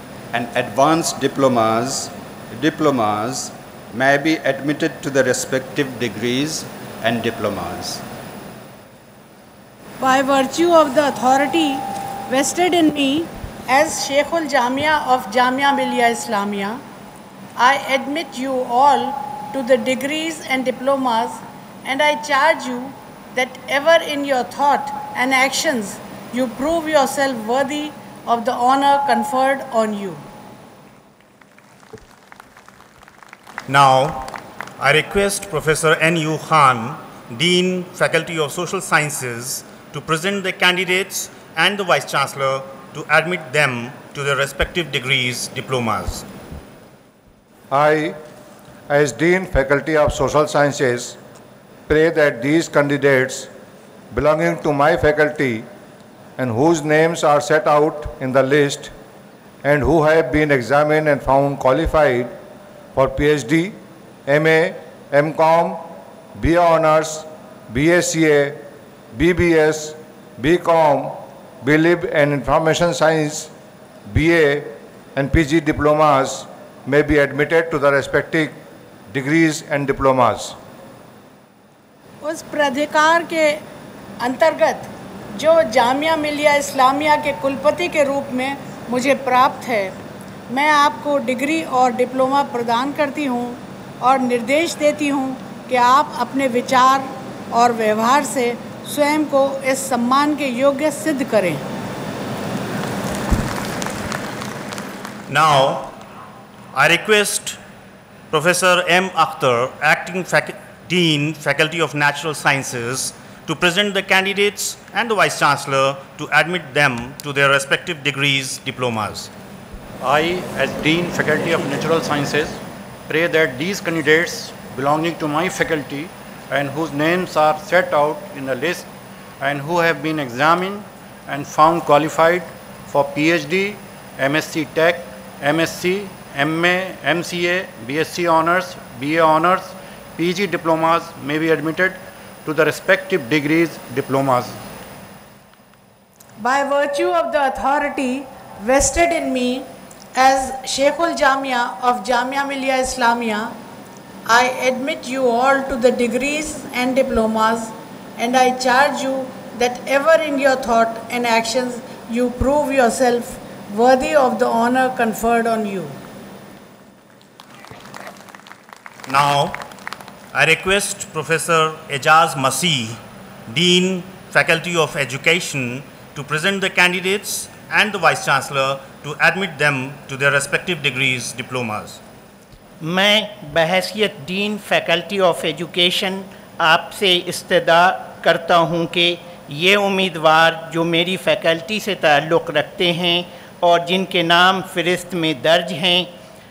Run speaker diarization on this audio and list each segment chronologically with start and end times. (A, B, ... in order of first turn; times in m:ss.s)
0:00.3-0:08.0 A
0:10.0-0:16.8 B
0:17.6-0:30.2 B
0:33.7-0:46.2 C
0:47.7-0:48.2 D
0:48.9-0:51.2 D
0:51.9-0:53.5 D
0:54.1-0:55.7 D
0:56.4-0:58.9 D
0:59.6-1:02.3 D
1:02.9-1:03.8 D
1:04.3-1:05.8 D
1:06.4-1:08.6 D
1:09.1-1:13.5 D
1:14.1-1:18.6 D
1:19.1-1:20.6 D
1:22.2-1:23.6 B
1:24.2-1:29.9 B
1:30.5-1:41.6 B
1:45.3-1:45.9 C
1:46.7-1:47.6 C
1:48.3-1:59.3 C
2:00.0-2:08.9 E
2:09.4-2:24.6 E
2:26.4-2:33.6 B
2:34.3-2:46.0 B
2:49.1-2:49.6 C
2:50.3-3:02.0 C
3:02.8-3:16.1 F